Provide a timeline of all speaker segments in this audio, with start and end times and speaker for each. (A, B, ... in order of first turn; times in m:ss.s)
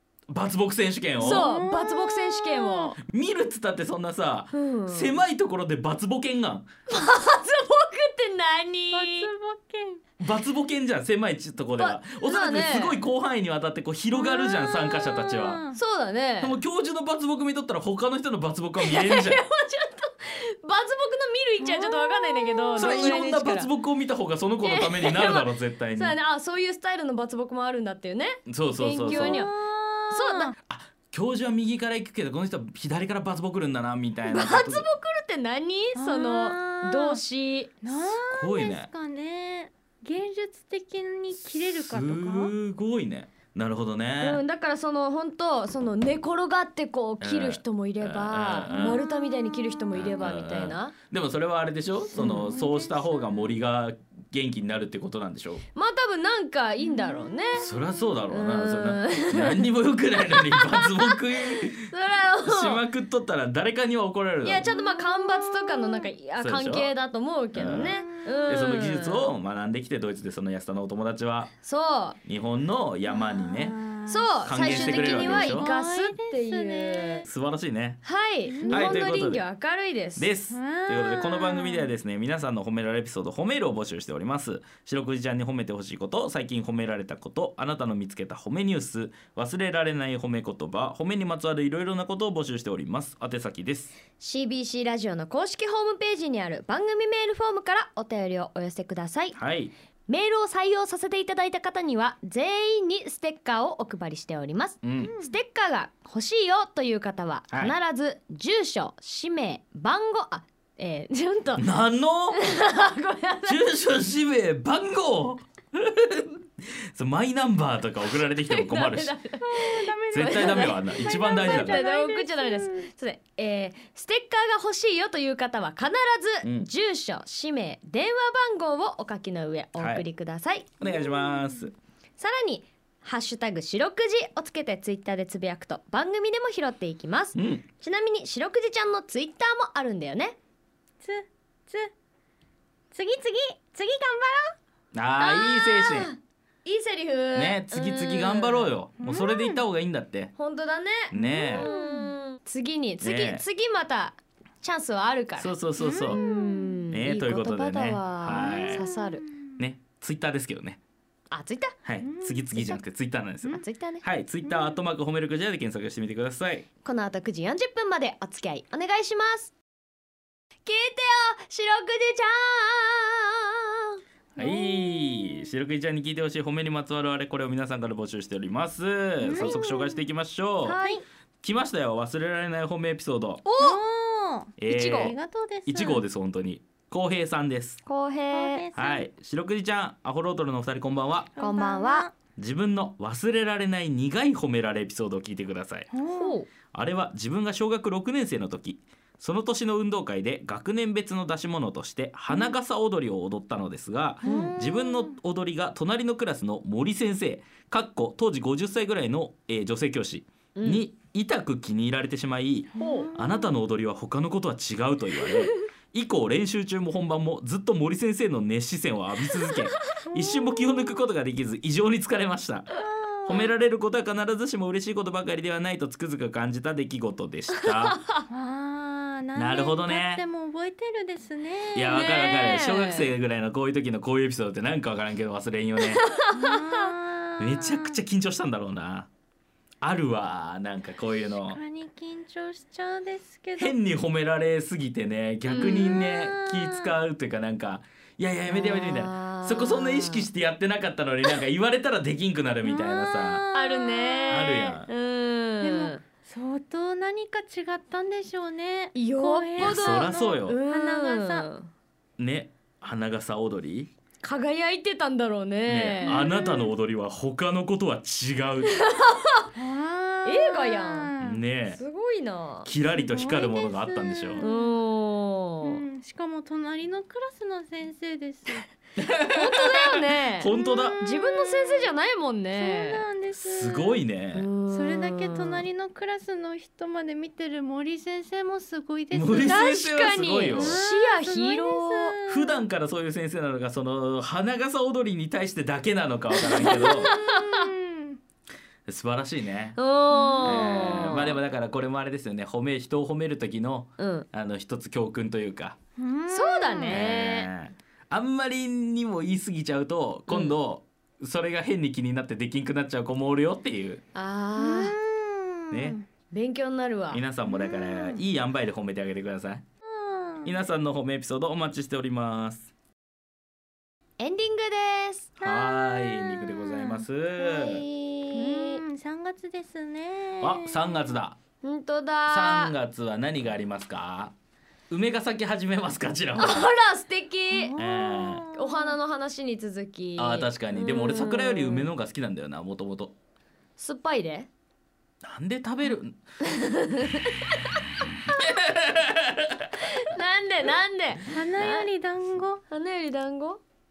0:00.3-0:01.5 A
0:01.2-0:02.9 B
0:01.2-0:03.0 C
0:03.0-0:06.6 A
0:04.5-0:05.2 C
0:06.9-0:09.3 C
0:08.9-0:10.0 B
0:10.2-0:15.6 A
0:11.8-0:13.0 C
0:14.1-0:15.8 B
0:15.7-0:16.6 C
0:16.4-0:19.4 A
0:18.8-0:23.7 C
0:21.6-0:23.1 B
0:22.8-0:26.2 A
0:24.6-0:29.5 C
0:28.5-0:29.4 A
0:29.0-0:30.5 B
0:30.1-0:30.5 C
0:30.7-0:34.9 A
0:34.2-0:37.7 C
0:36.0-0:37.2 B
0:37.8-0:42.5 B
0:37.9-0:38.9 A
0:41.6-0:44.4 A
0:44.2-0:50.9 C
0:47.2-0:49.0 A
0:48.7-0:49.9 B
0:49.9-0:55.6 A
0:52.1-0:52.5 C
0:52.2-0:53.6 B
0:55.7-0:57.7 C
0:56.9-0:57.4 B
0:57.6-1:01.9 A
0:58.3-0:59.7 C
1:00.2-1:02.8 C
1:02.4-1:04.7 A
1:04.4-1:09.3 C
1:04.6-1:06.1 B
1:06.4-1:06.9 A
1:07.5-1:11.5 A
1:07.8-1:08.7 B
1:11.6-1:12.2 C
1:12.2-1:13.8 A
1:13.0-1:17.3 B
1:14.1-1:17.2 C
1:14.4-1:15.7 A
1:17.2-1:18.0 A
1:18.0-1:20.3 C
1:18.5-1:19.0 B
1:18.7-1:19.4 A
1:20.2-1:33.9 A
1:20.5-1:21.9 B
1:34.2-1:39.4 C
1:39.4-1:39.7 A
1:40.1-1:51.7 C
1:44.8-1:45.1 A
1:45.0-1:45.3 B
1:51.6-1:52.4 A
1:52.3-1:53.6 C
1:53.4-1:59.1 A
1:58.4-2:10.8 C
1:59.4-2:02.9 B
2:00.1-2:01.8 A
2:06.4-2:06.7 A
2:09.8-2:10.0 A
2:10.8-2:11.7 A
2:10.9-2:11.6 B
2:12.2-2:20.4 C
2:17.4-2:17.6 A
2:21.0-2:21.9 B
2:22.9-2:24.6 B
2:24.9-2:26.1 A
2:25.2-2:28.7 C
2:27.3-2:30.3 A
2:29.0-2:29.6 B
2:30.4-2:35.5 C
2:31.1-2:31.7 A
2:31.1-2:32.1 B
2:33.0-2:33.4 A
2:35.4-2:36.2 A
2:35.8-2:36.8 B
2:36.1-2:39.2 C
2:36.9-2:38.8 A
2:38.3-2:39.5 B
2:39.6-2:40.8 A
2:41.3-2:41.8 C
2:41.8-2:46.6 A
2:42.0-2:42.5 B
2:42.5-2:42.8 C
2:43.4-2:44.0 C
2:44.4-2:44.8 B
2:46.8-2:49.5 C
2:50.6-2:54.0 C
2:54.4-2:55.4 B
2:54.4-3:00.8 A
2:59.2-3:00.1 B
2:59.3-2:59.6 C
3:00.6-3:01.0 C
3:01.4-3:03.4 A
3:03.4-3:03.8 C
3:03.6-3:06.0 B
3:04.6-3:05.1 A
3:04.6-3:05.2 C
3:05.6-3:07.8 A
3:07.8-3:08.7 C
3:08.3-3:09.1 B
3:08.8-3:11.3 A
3:11.3-3:12.1 B
3:11.4-3:12.1 C
3:12.4-3:15.9 A
3:15.9-3:16.3 B
3:16.0-3:16.5 C
3:16.7-3:48.0 A
3:22.3-3:22.6 B
3:24.2-3:25.2 B
3:24.2-3:24.5 C
3:30.5-3:30.9 C
3:32.7-3:33.6 B
3:32.8-3:33.1 C
3:40.1-3:40.6 B
3:47.8-3:48.2 C
3:48.3-3:52.0 B
3:49.3-3:50.2 A
3:51.7-3:56.0 A
3:51.8-3:53.1 C
3:55.8-3:56.8 C
3:56.3-3:58.0 B
3:57.4-3:59.1 A
3:59.8-4:01.6 A
4:01.2-4:03.8 B
4:03.6-4:13.4 A
4:05.5-4:06.9 B
4:08.5-4:10.3 C
4:12.6-4:14.8 B
4:13.5-4:16.0 C
4:14.3-4:14.9 A
4:15.6-4:21.5 B
4:18.9-4:21.7 C
4:19.6-4:20.6 A
4:22.2-4:23.9 A
4:24.2-4:26.2 C
4:25.6-4:28.7 A
4:26.0-4:26.8 B
4:28.7-4:29.5 C
4:29.6-4:31.4 B
4:30.2-4:31.1 C
4:31.2-4:31.8 A
4:31.7-4:32.7 C
4:32.6-4:34.4 A
4:32.9-4:34.8 B
4:34.4-4:35.8 C
4:35.6-4:38.7 B
4:39.0-4:41.0 A
4:39.3-4:43.0 C
4:40.5-4:41.9 B
4:42.5-4:44.0 B
4:43.4-4:44.5 A
4:44.3-4:45.6 C
4:44.7-4:49.7 B
4:49.1-4:50.8 A
4:49.4-4:52.2 C
4:50.5-4:52.6 B
4:52.3-4:57.1 A
4:56.4-4:57.7 C
4:56.5-4:58.2 B
4:58.9-4:59.8 A
4:59.8-5:01.4 C
5:00.1-5:01.0 B
5:00.4-5:05.8 A
5:04.0-5:04.3 C
5:06.0-5:07.0 B
5:06.3-5:07.5 C
5:06.8-5:14.0 A
5:10.3-5:10.5 C
5:14.1-5:15.0 C
5:14.6-5:16.0 B
5:15.7-5:16.0 A
5:16.3-5:17.2 C
5:17.1-5:19.6 A
5:17.4-5:18.2 B
5:19.9-5:20.5 B
5:20.4-5:22.7 A
5:24.2-5:25.3 C
5:25.4-5:27.8 A
5:25.4-5:27.0 B
5:27.4-5:28.8 C
5:28.3-5:31.2 B
5:30.4-5:31.4 A
5:31.6-5:32.8 C
5:32.3-5:34.3 A
5:34.9-5:36.7 A
5:36.4-5:37.7 C
5:37.5-5:38.9 B
5:37.8-5:38.5 A
5:38.5-5:41.9 C
5:40.2-5:43.1 A
5:43.8-5:44.5 C
5:45.2-5:46.2 A
5:46.4-5:47.5 C
5:48.5-5:49.6 A
5:50.1-5:51.9 C
5:51.3-5:52.6 B
5:52.7-5:53.6 C